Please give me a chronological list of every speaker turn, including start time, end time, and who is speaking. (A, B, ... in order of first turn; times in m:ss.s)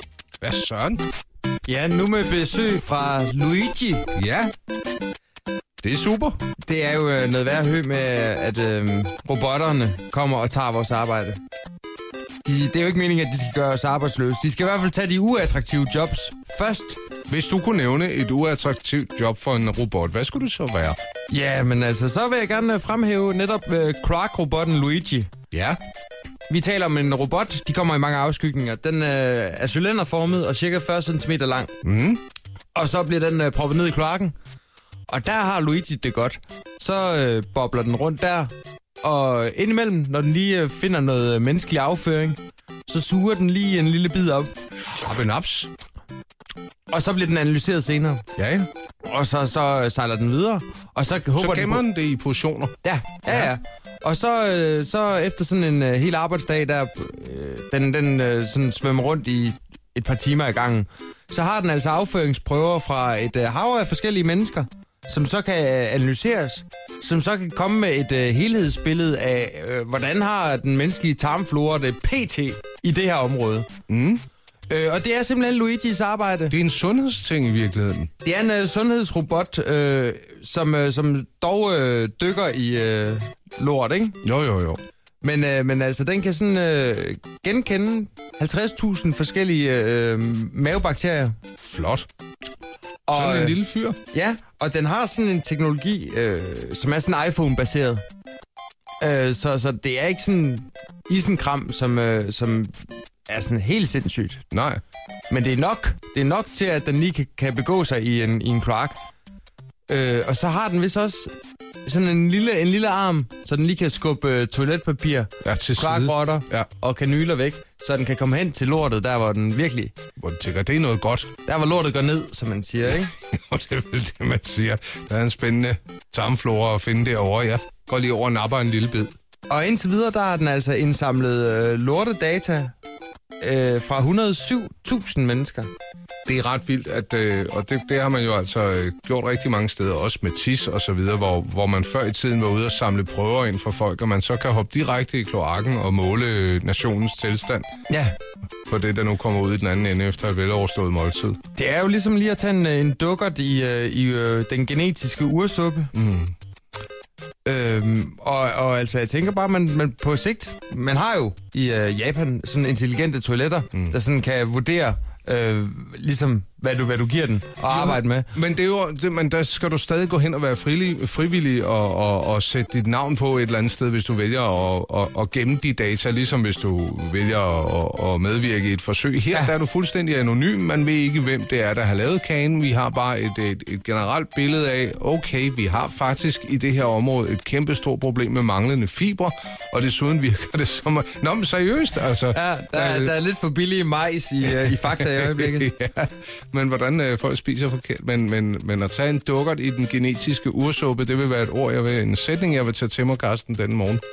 0:00.4-0:01.0 A
0:01.7-0:04.1 B
0:04.1-0:04.5 A
0:05.8-0:06.4 A
0:06.6-0:11.4 B
0:12.4-0:17.0 B
0:17.3-0:21.0 A
0:21.3-0:25.3 B
0:25.5-0:25.8 A
0:26.5-0:31.7 B
0:31.8-0:32.2 A
0:32.7-0:34.3 B
0:35.1-0:38.5 B
0:39.0-0:44.5 B
0:45.0-0:45.7 A
0:46.9-0:48.2 B
0:48.4-0:48.7 A
0:49.0-0:51.8 B
0:51.4-0:52.7 A
0:52.8-1:13.7 B
1:13.9-1:14.2 A
1:14.7-1:16.5 B
1:16.5-1:18.1 A
1:18.2-1:24.2 B
1:24.2-1:24.8 A
1:25.2-1:31.4 B
1:31.6-1:32.0 A
1:33.1-1:33.6 B
1:33.1-1:34.0 A
1:34.1-1:38.0 B
1:39.0-1:42.8 B
1:43.3-1:44.4 B
1:44.5-1:44.8 A
1:45.3-1:49.0 B
1:49.9-1:51.3 B
1:51.8-1:59.9 B
1:55.4-1:56.7 A
2:00.2-2:01.3 A
2:01.4-2:03.1 B
2:03.3-2:09.2 A
2:09.5-2:12.7 B
2:13.4-2:15.7 B
2:16.2-2:27.6 A
2:27.9-2:28.1 B
2:28.7-2:31.4 A
2:31.5-2:35.9 B
2:35.9-2:36.3 A
2:37.4-2:48.3 B
2:47.7-3:13.1 A
3:12.3-3:15.7 B
3:15.0-3:24.0 A